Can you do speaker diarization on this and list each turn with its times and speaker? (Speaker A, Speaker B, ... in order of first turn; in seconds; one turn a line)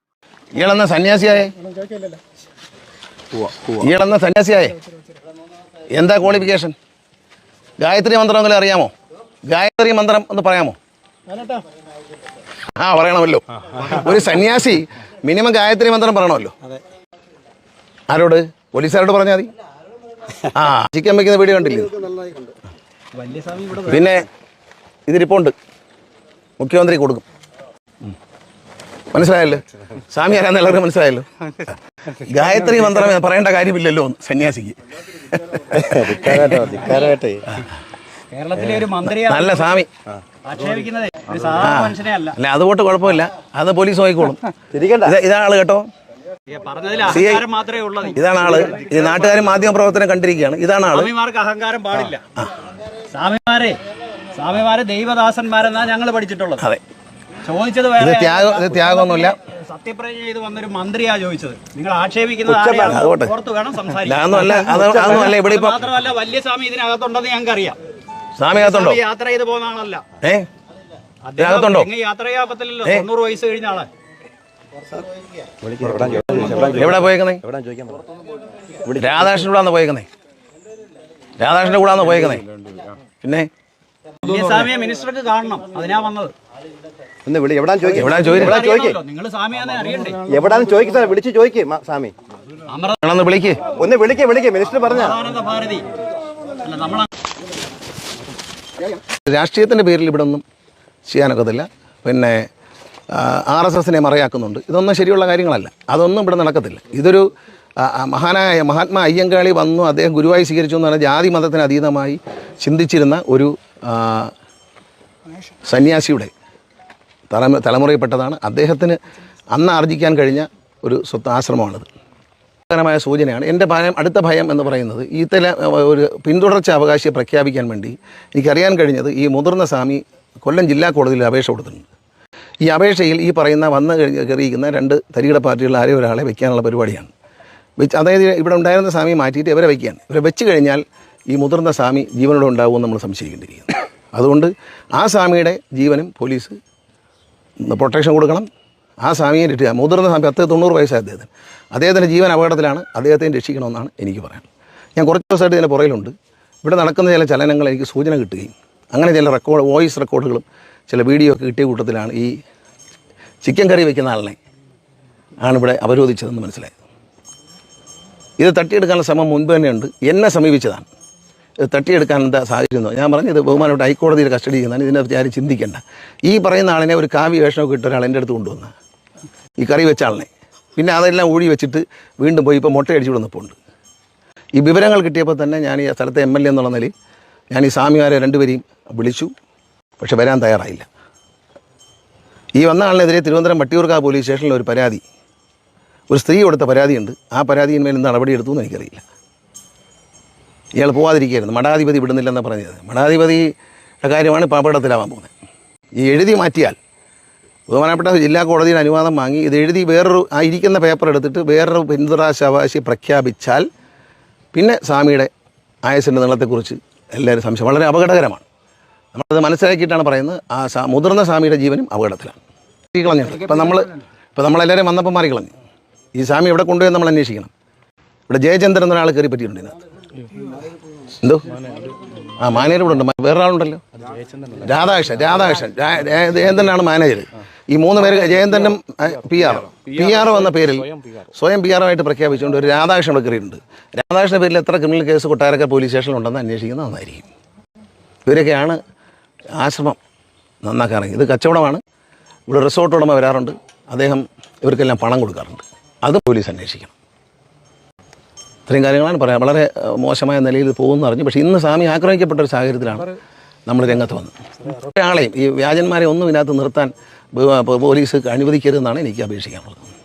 Speaker A: 0.5-1.5
Speaker A: 3.7-4.8
Speaker A: 5.9-6.7
Speaker A: 7.8-8.9
Speaker A: 9.5-10.8
Speaker B: 11.3-11.6
Speaker A: 12.8-16.5
Speaker A: 18.1-19.5
Speaker A: 20.5-22.0
Speaker C: 22.0-22.5
Speaker B: 23.1-24.1
Speaker A: 23.9-24.2
Speaker A: 25.1-25.5
Speaker A: 26.6-27.2
Speaker A: 29.1-36.5
Speaker C: 35.8-37.4
Speaker B: 38.3-39.8
Speaker A: 38.9-39.9
Speaker B: 40.4-42.4
Speaker A: 41.6-44.4
Speaker C: 44.7-45.1
Speaker A: 45.0-45.9
Speaker B: 46.5-48.9
Speaker A: 47.0-47.4
Speaker A: 48.1-51.1
Speaker B: 50.9-52.2
Speaker B: 53.1-53.8
Speaker B: 54.3-56.6
Speaker B: 57.4-67.8
Speaker A: 58.0-59.4
Speaker C: 62.5-63.0
Speaker A: 62.9-63.3
Speaker A: 63.9-65.8
Speaker C: 64.5-65.2
Speaker A: 68.3-69.0
Speaker B: 68.5-70.0
Speaker A: 70.2-70.5
Speaker B: 71.2-73.9
Speaker A: 71.4-71.9
Speaker C: 75.6-78.0
Speaker A: 76.7-77.4
Speaker C: 78.8-79.2
Speaker A: 79.0-80.1
Speaker A: 81.4-82.4
Speaker A: 83.2-83.5
Speaker B: 84.2-86.3
Speaker C: 87.2-89.0
Speaker A: 87.9-88.6
Speaker B: 88.1-90.2
Speaker C: 90.2-92.1
Speaker B: 92.7-93.0
Speaker A: 93.0-93.6
Speaker C: 93.7-95.2
Speaker B: 94.9-95.8
Speaker B: 96.6-97.1
Speaker A: 99.2-100.4
Speaker A: 101.0-102.5
Speaker A: 103.1-107.2
Speaker A: 107.8-114.3
Speaker A: 115.7-116.3
Speaker A: 117.3-119.0
Speaker A: 119.5-121.8
Speaker A: 122.7-131.9
Speaker A: 132.6-137.1
Speaker A: 137.8-146.6
Speaker A: 147.6-148.5
Speaker A: 149.0-156.1
Speaker A: 156.6-162.3
Speaker A: 163.4-164.4
Speaker A: 165.4-166.8
Speaker A: 168.4-170.8
Speaker A: 171.6-178.7
Speaker A: 179.6-183.6
Speaker A: 184.6-186.9
Speaker A: 187.5-189.3
Speaker A: 190.0-190.8
Speaker A: 192.6-195.0
Speaker A: 196.1-199.0
Speaker A: 200.8-203.5
Speaker A: 204.0-205.3
Speaker A: 206.0-206.8
Speaker A: 207.7-213.7
Speaker A: 214.5-215.3
Speaker A: 215.8-218.4
Speaker A: 219.1-222.4
Speaker A: 222.9-225.5
Speaker A: 226.1-227.5
Speaker A: 228.3-229.7
Speaker A: 231.2-231.6
Speaker A: 232.4-233.8
Speaker A: 234.6-247.3
Speaker A: 248.2-248.8
Speaker A: 249.6-250.0
Speaker A: 250.6-251.8
Speaker A: 252.5-256.9
Speaker A: 258.7-263.1
Speaker A: 263.7-269.8